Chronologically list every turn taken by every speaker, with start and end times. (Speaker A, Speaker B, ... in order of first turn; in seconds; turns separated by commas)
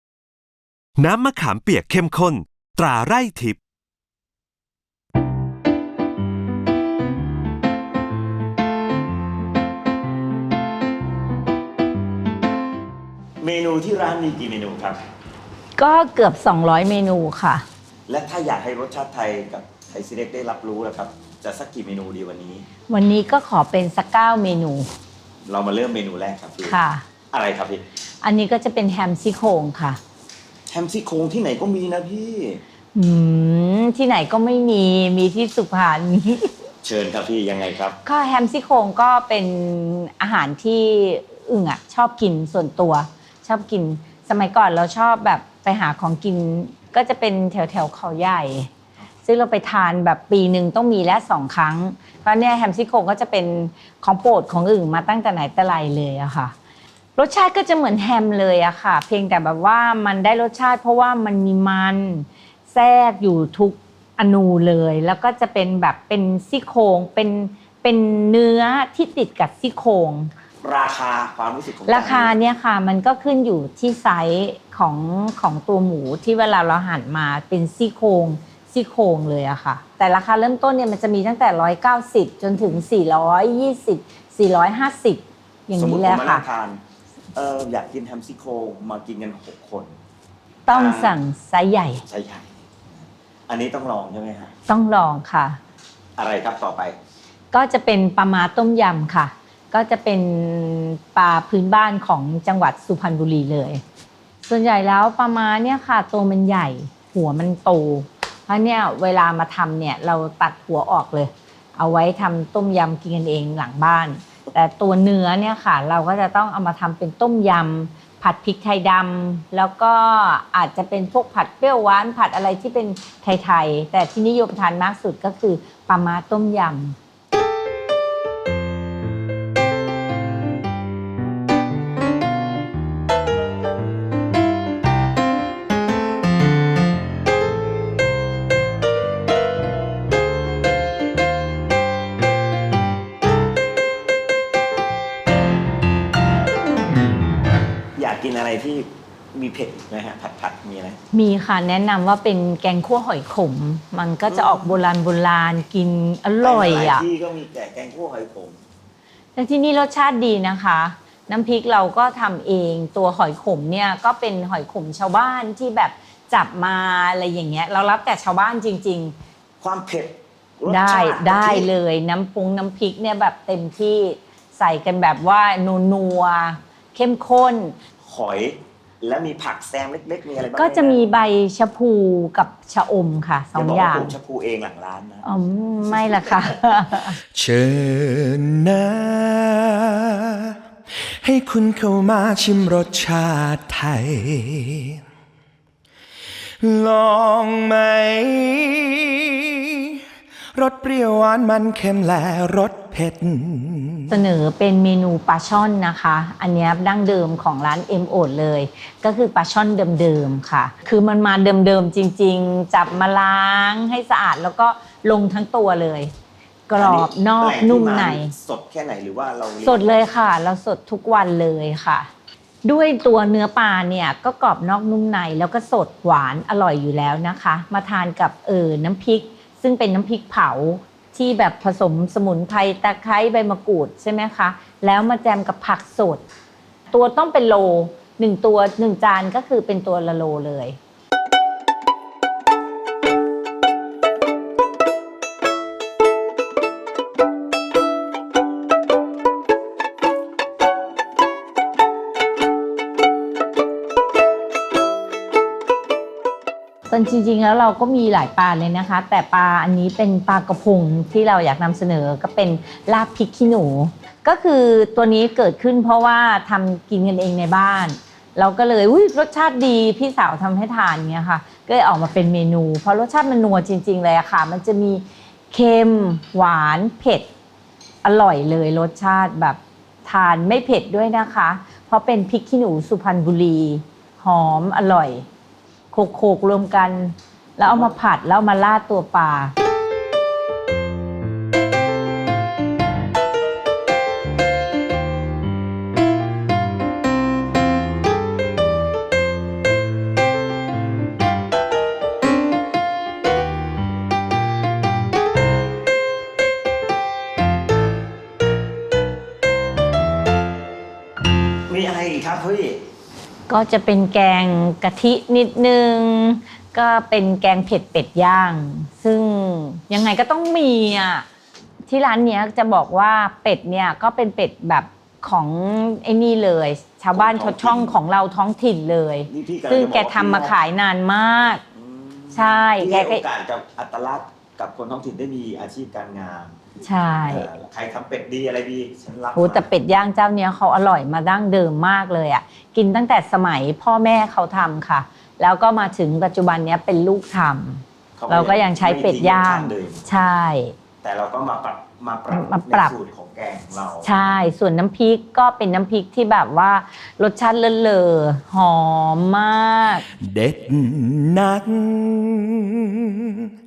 Speaker A: 1.0-3.6, Speaker B: 13.4-15.0, Speaker C: 15.8-17.6, Speaker B: 18.1-22.7, Speaker C: 22.9-24.9, Speaker B: 25.4-26.8, Speaker C: 26.6-27.0, Speaker B: 27.3-27.8, Speaker C: 28.2-30.0, Speaker B: 30.7-32.6, Speaker C: 32.9-36.5, Speaker B: 36.8-38.0, Speaker C: 38.0-48.7, Speaker C: 49.2-56.5, Speaker C: 57.1-70.3, Speaker B: 70.6-72.3, Speaker C: 71.9-86.5, Speaker B: 85.8-86.8, Speaker B: 87.3-89.9, Speaker C: 90.7-92.0, Speaker B: 90.7-91.2, Speaker B: 92.0-94.5, Speaker C: 94.7-95.6, Speaker B: 96.2-97.0, Speaker C: 97.5-103.8, Speaker C: 104.4-126.9, Speaker B: 147.9-151.0, Speaker C: 151.1-157.1, Speaker B: 154.3-154.8, Speaker B: 156.4-158.6, Speaker C: 159.3-169.1, Speaker B: 169.6-171.7, Speaker C: 170.7-177.8, Speaker B: 178.0-181.1, Speaker C: 180.5-184.1, Speaker B: 183.5-185.2, Speaker C: 185.2-187.2, Speaker D: 187.3-190.6, Speaker D: 191.2-195.0, Speaker D: 196.6-200.0, Speaker D: 200.5-204.1, Speaker C: 204.1-216.1, Speaker C: 216.7-218.3, Speaker B: 216.8-220.0, Speaker C: 219.6-222.1, Speaker C: 222.6-236.2, Speaker C: 236.9-240.8, Speaker C: 256.9-277.3, Speaker C: 278.0-285.2, Speaker C: 285.9-289.5, Speaker B: 311.7-312.8, Speaker C: 313.5-321.2, Speaker C: 321.9-331.6, Speaker B: 327.1-327.9, Speaker B: 329.3-330.6, Speaker B: 331.7-336.5, Speaker C: 332.3-333.2, Speaker C: 336.8-337.5, Speaker B: 337.3-339.6, Speaker C: 339.4-350.7, Speaker B: 348.2-350.0, Speaker B: 351.0-354.1, Speaker C: 352.3-352.9, Speaker C: 354.0-360.0, Speaker D: 360.2-363.5